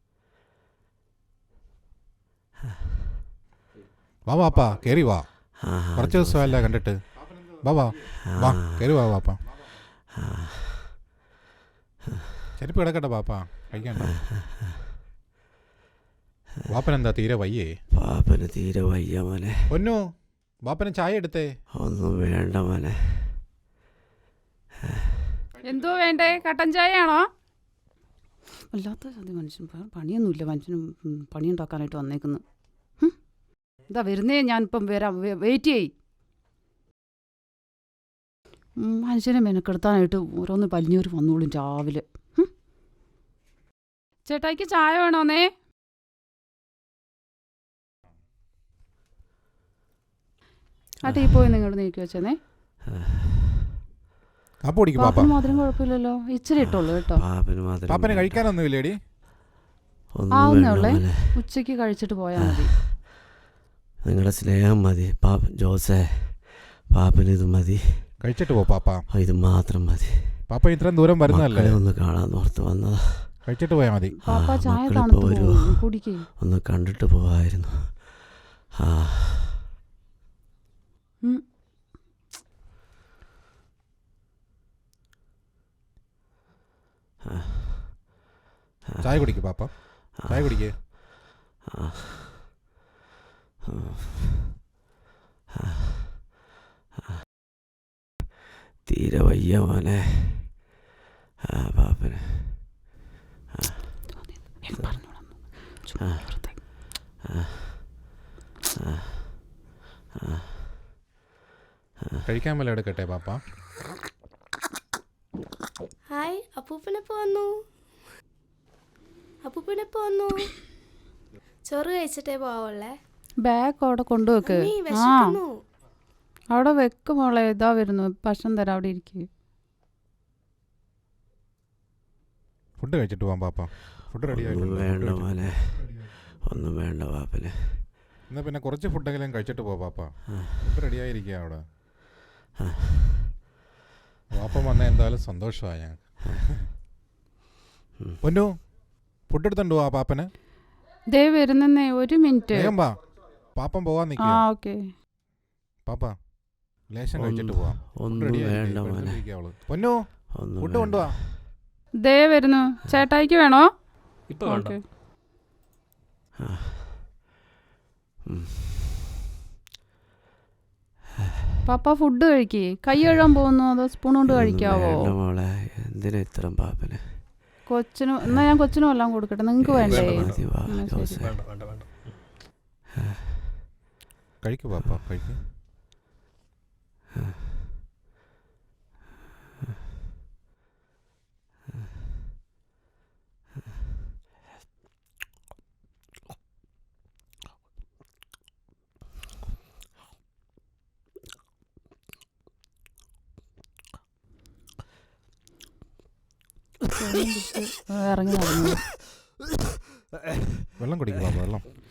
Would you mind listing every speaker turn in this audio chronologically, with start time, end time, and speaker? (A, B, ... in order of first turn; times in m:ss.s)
0:04.3-0:05.3 A
0:05.6-0:06.8 B
0:06.0-0:07.0 A
0:07.5-0:09.4 A
0:08.3-0:09.1 B
0:10.2-0:11.0 B
0:12.6-0:14.1 A
0:14.0-0:14.5 B
0:16.7-0:17.7 A
0:17.9-0:19.8 B
0:19.7-0:20.0 A
0:20.6-0:21.5 A
0:21.8-0:23.4 B
0:25.6-0:27.3 C
0:28.7-0:32.4 C
0:33.9-0:35.9 C
0:38.8-0:42.5 C
0:44.2-0:45.5 C
0:51.0-0:52.4 C
0:51.1-0:51.4 B
0:53.0-0:53.5 B
0:54.6-0:55.3 A
0:55.0-0:57.2 C
0:56.6-0:58.6 B
0:57.9-0:59.0 A
1:00.2-1:01.4 B
1:00.3-1:02.7 C
1:02.6-1:03.1 B
1:04.0-1:08.1 B
1:08.2-1:09.0 A
1:09.1-1:10.5 B
1:10.5-1:11.8 A
1:11.2-1:13.4 B
1:13.5-1:14.2 A
1:14.2-1:16.2 C
1:14.3-1:19.6 B
1:27.2-1:28.2 B
1:28.9-1:29.4 B
1:29.0-1:30.7 A
1:30.1-1:31.0 B
1:31.7-1:32.6 B
1:33.7-1:34.6 B
1:35.8-1:36.3 B
1:38.8-1:40.8 B
1:41.5-1:43.0 B
1:43.6-1:44.1 B
1:44.2-1:46.6 C
1:46.0-1:46.3 B
1:47.3-1:48.1 B
1:48.9-1:49.4 B
1:50.4-1:50.6 B
1:52.2-1:53.4 A
1:56.1-1:57.5 D
1:59.4-2:00.5 D
2:01.7-2:02.9 D
2:03.4-2:05.4 C
2:04.4-2:05.5 D
2:06.5-2:09.3 C
2:12.8-2:15.4 A
2:14.2-2:17.9 B
2:18.3-2:21.6 A
2:20.4-2:20.7 B
2:22.7-2:23.2 B
2:24.3-2:26.6 A
2:28.2-2:28.6 A
2:29.2-2:30.3 A
2:31.1-2:32.8 C
2:32.5-2:33.0 A
2:33.5-2:34.4 A
2:34.2-2:34.9 C
2:35.8-2:36.1 A
2:36.8-2:40.0 A
2:37.1-2:39.2 B
2:40.4-2:41.2 B
2:40.6-2:41.2 A
2:42.0-2:43.7 C
2:44.3-2:44.8 E
2:44.4-2:44.8 C
2:46.4-2:47.2 B
2:48.3-2:48.9 B
2:51.7-2:55.1 C
2:54.3-2:57.5 B
2:57.7-3:01.2 C
2:59.7-3:01.3 B
2:59.8-3:00.5 E
3:01.2-3:02.2 E
3:03.1-3:03.4 B
3:04.4-3:05.4 A
3:26.9-3:28.9 C
3:30.8-3:31.7 A